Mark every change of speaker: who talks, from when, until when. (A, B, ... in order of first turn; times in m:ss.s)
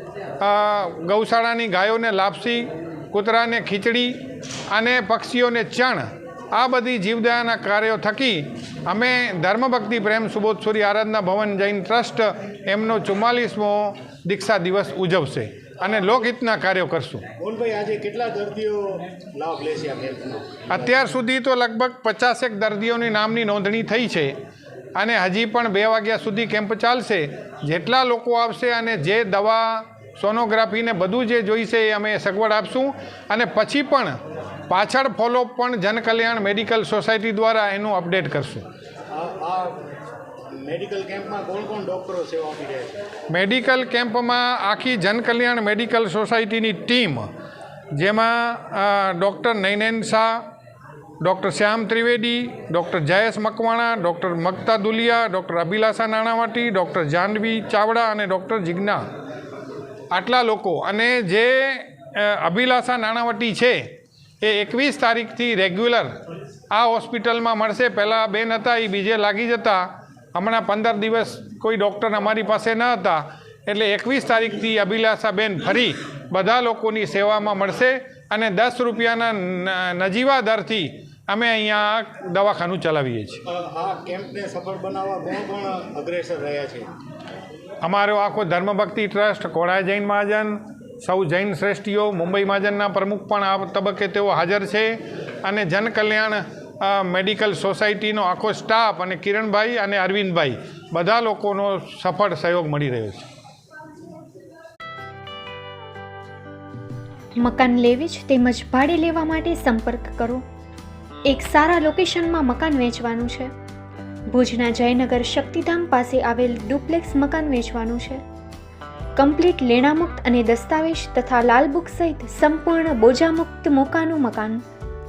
0:00.4-0:17.3 A
0:17.4-0:20.9 B
0:20.7-0:24.4 A
0:25.0-0:34.2 A
0:34.7-0:38.7 A
0:39.1-0:39.9 B
0:40.5-0:43.0 B
0:43.3-0:47.3 A
0:47.9-0:50.4 A
0:51.2-0:59.0 A
1:00.1-1:06.2 A
1:06.7-1:23.4 A
1:23.5-1:26.9 B
1:27.8-1:43.3 A
1:47.4-1:50.4 C
1:51.3-1:53.5 C
1:54.3-1:58.2 C
1:59.2-2:04.6 C